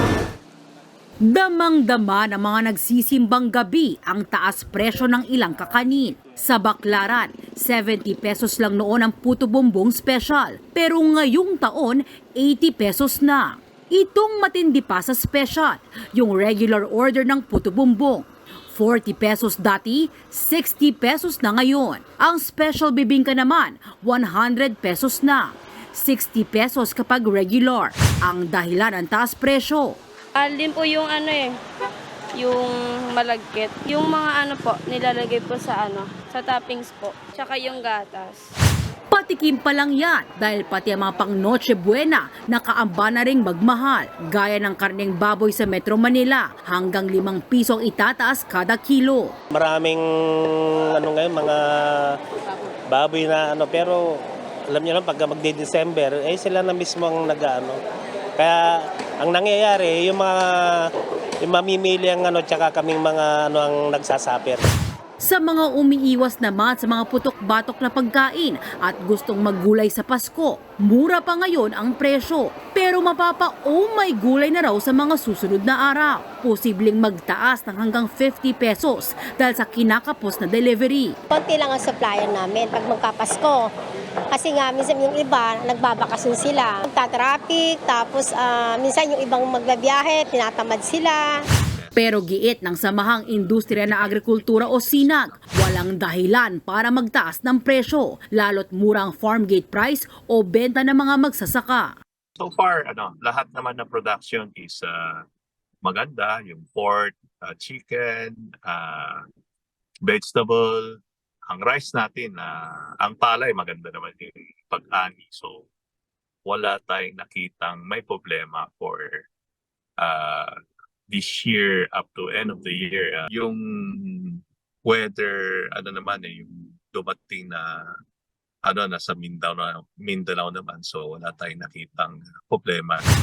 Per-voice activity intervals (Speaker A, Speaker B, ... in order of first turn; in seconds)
Speaker A: 1.2-30.0, 39.1-49.3, 65.2-81.1, 91.9-101.9
Speaker B: 30.4-31.5, 32.4-38.4
Speaker C: 49.5-52.1, 52.9-54.0, 54.7-57.8, 58.4-60.7, 61.4-64.6
Speaker D: 81.3-83.7, 84.3-91.3
Speaker E: 91.6-92.0, 93.3-95.5, 102.4-105.2, 105.8-109.2, 110.0-111.0, 111.5-115.7, 116.4-119.2, 120.0-120.5, 121.1-127.8, 128.6-133.0